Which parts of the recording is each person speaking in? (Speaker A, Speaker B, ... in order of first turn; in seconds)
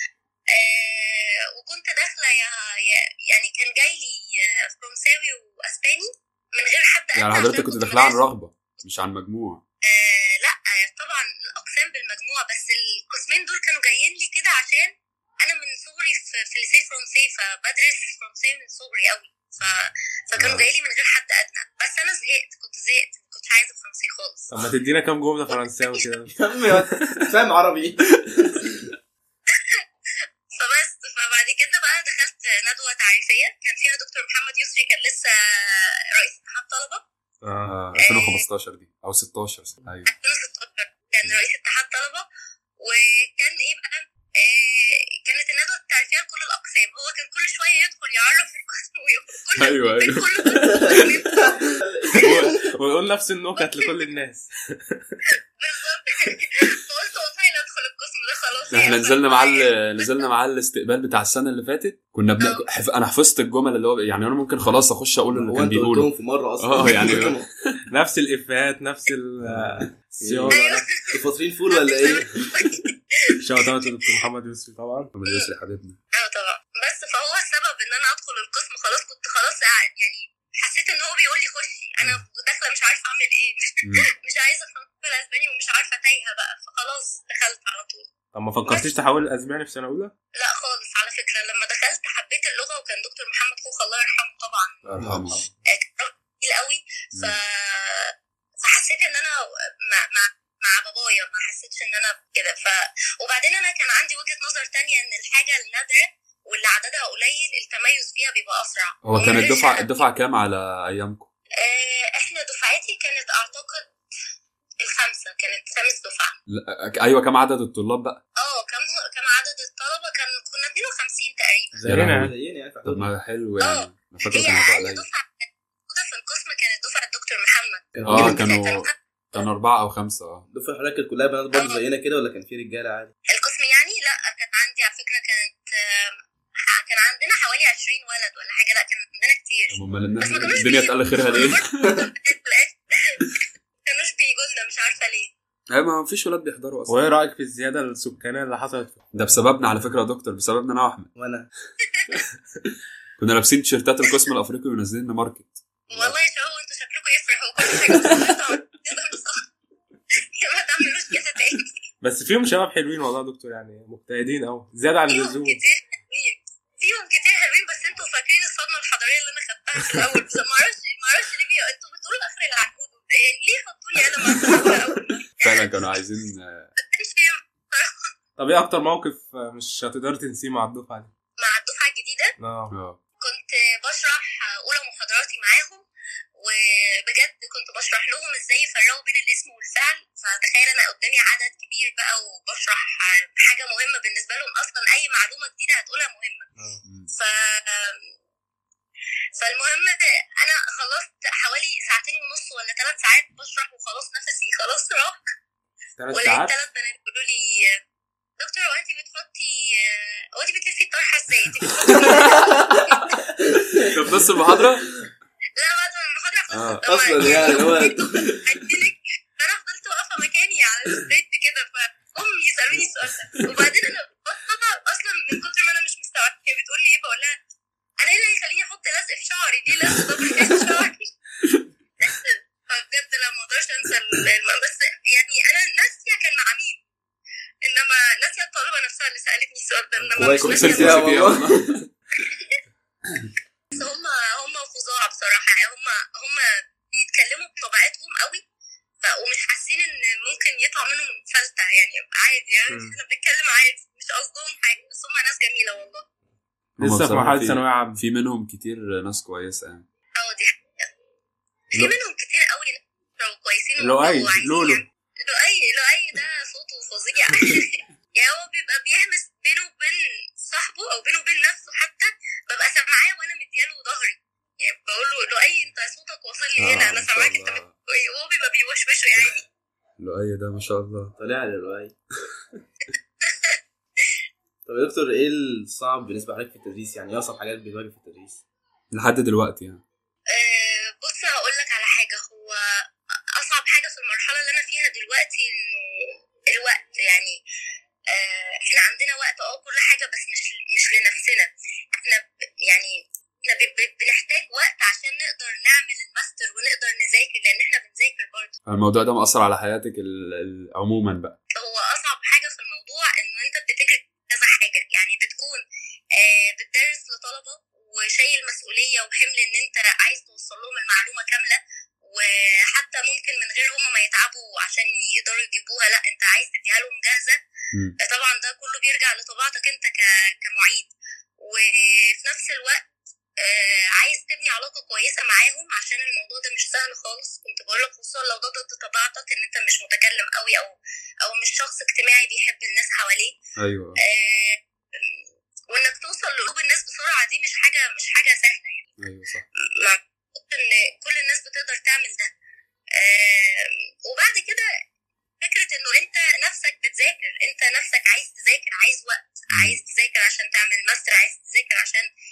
Speaker A: 0.5-4.2, 4.7-8.2, 9.9-24.5, 30.5-37.0, 38.0-38.4, 40.1-42.2, 42.8-51.6, 53.6-53.9, 55.6-60.2, 70.5-70.9, 71.7-73.4, 76.1-83.6, 84.2-88.1, 90.4-94.8, 95.8-99.3, 99.9-110.0, 111.6-113.8, 114.8-116.3, 118.4-121.9, 123.6-129.5, 131.5-131.8, 133.3-136.2, 136.8-145.3, 155.9-159.4, 160.4-161.7, 165.1-175.4, 176.8-178.0, 181.4-182.3, 183.2-185.8, 186.4-196.4, 197.1-198.1, 199.4-205.2, 206.1-207.7, 208.4-212.4, 215.6-227.3, 228.0-231.1, 232.0-236.8, 237.6-241.1, 243.7-248.4, 249.0-256.0, 260.1-260.9, 261.7-279.4, 283.3-283.6, 290.3-292.6, 293.4-295.9, 296.5-297.3, 298.1-302.9, 303.5-308.6, 311.5-315.6, 316.2-327.4, 328.0-330.9, 332.2-332.9, 333.4-343.4, 344.0-349.0, 349.8-352.3, 353.0-354.6, 355.4-362.0
Speaker B: 7.2-9.6, 20.3-20.6, 37.6-40.1, 49.6-51.2, 52.2-52.5, 58.7-67.7, 75.1-76.0, 83.8-84.1, 94.8-95.4, 109.0-111.3, 116.5-118.2, 121.7-122.3, 122.8-125.0, 128.0-130.5, 139.7-141.7, 145.7-147.0, 149.1-151.1, 153.2-156.2, 175.4-176.7, 182.7-183.0, 213.9-214.9, 216.5-217.4, 229.8-230.8, 240.2-241.8, 256.8-259.9, 276.6-277.7, 280.0-281.1, 288.9-289.8, 308.6-311.4, 343.6-344.0, 349.0-349.4, 359.5-359.8
Speaker C: 24.5-26.3, 37.4-37.8, 52.2-55.0, 67.9-70.9, 73.4-75.1, 88.3-90.1, 95.0-95.4, 121.8-122.3, 146.9-149.0, 162.0-165.6, 178.4-181.1, 182.4-182.7, 206.0-206.5, 252.7-253.0, 256.8-258.0, 263.8-264.8
Speaker D: 26.3-28.7, 51.6-52.6, 65.3-67.5, 69.5-72.2, 122.0-123.1, 127.9-128.4, 130.5-133.1, 151.1-151.5, 212.2-214.3, 216.8-218.5, 240.2-241.6, 281.2-281.9, 284.6-288.4